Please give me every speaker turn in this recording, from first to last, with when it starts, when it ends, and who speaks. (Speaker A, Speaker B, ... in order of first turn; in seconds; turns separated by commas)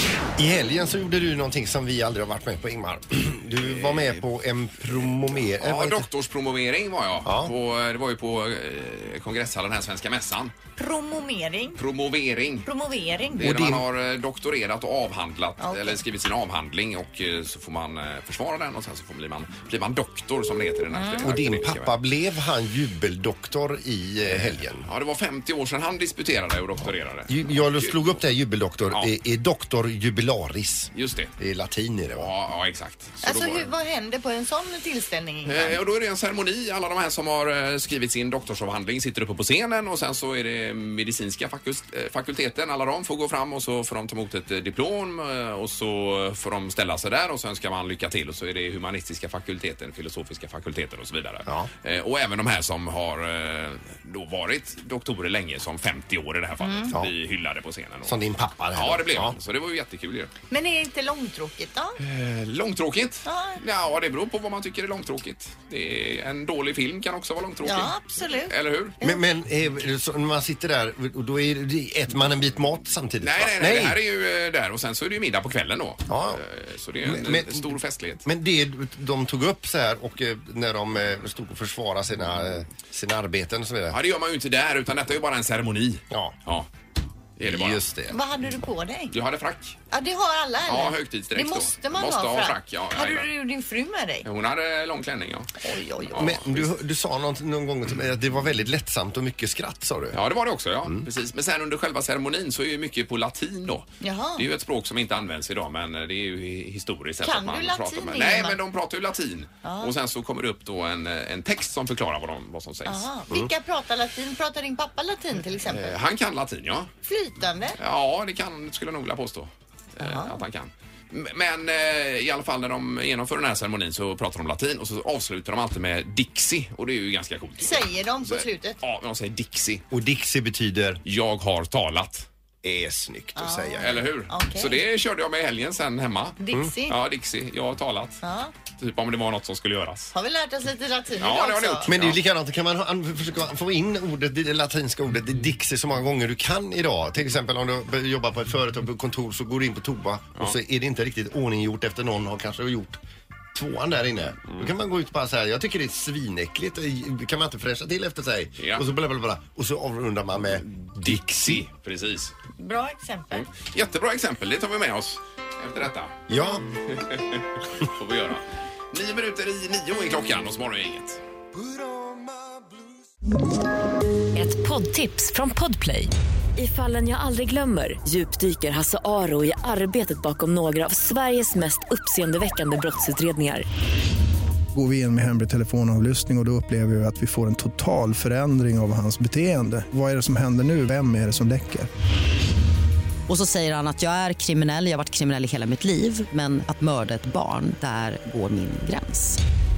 Speaker A: 0.4-6.1, Speaker B: 3.6-4.2, Speaker B: 5.6-10.5, Speaker A: 7.2-7.5, Speaker C: 10.8-11.8, Speaker B: 11.8-12.7, Speaker C: 12.6-13.5, Speaker B: 13.4-21.9, Speaker A: 13.4-13.8, Speaker C: 15.6-16.0, Speaker C: 20.9-21.3, Speaker A: 21.2-24.9, Speaker B: 24.2-28.2, Speaker A: 27.3-32.3, Speaker B: 28.9-29.1, Speaker B: 30.9-31.3, Speaker B: 32.2-33.7, Speaker C: 33.2-35.8, Speaker B: 35.4-58.2, Speaker C: 56.6-56.9, Speaker A: 58.0-59.4, Speaker B: 58.7-60.3, Speaker C: 60.5-62.0, Speaker B: 62.0-67.9, Speaker C: 63.2-63.6, Speaker C: 67.6-69.2, Speaker B: 68.5-68.9, Speaker A: 69.0-74.0, Speaker B: 73.2-78.2, Speaker A: 76.1-76.4, Speaker A: 77.0-84.0, Speaker B: 83.9-86.7, Speaker A: 86.1-86.3, Speaker B: 87.4-87.8, Speaker A: 87.4-88.2, Speaker C: 88.1-89.1, Speaker B: 89.1-89.8, Speaker C: 89.9-94.2, Speaker B: 90.7-93.2, Speaker B: 94.2-95.5, Speaker C: 95.6-96.3, Speaker B: 96.1-96.6, Speaker A: 96.2-100.2, Speaker B: 100.1-113.1, Speaker C: 104.0-104.5, Speaker C: 107.2-108.6, Speaker C: 109.6-109.9, Speaker C: 112.8-116.0, Speaker B: 115.7-116.9, Speaker C: 117.0-117.8, Speaker B: 117.8-129.8, Speaker C: 120.0-120.3, Speaker C: 127.6-128.8, Speaker A: 129.9-131.0, Speaker B: 131.0-132.3, Speaker A: 132.6-134.1, Speaker C: 133.3-134.8, Speaker B: 133.8-138.2, Speaker C: 136.4-137.0, Speaker C: 138.2-138.5, Speaker B: 138.8-140.1, Speaker C: 140.1-141.9, Speaker B: 141.2-142.2, Speaker A: 141.9-153.0, Speaker A: 153.5-161.6, Speaker B: 158.6-158.8, Speaker B: 160.7-162.3, Speaker C: 162.6-163.5, Speaker B: 163.3-166.1, Speaker A: 166.3-166.6, Speaker B: 166.9-171.2, Speaker A: 171.5-172.8, Speaker D: 174.3-183.7, Speaker E: 184.7-191.9, Speaker F: 193.3-199.4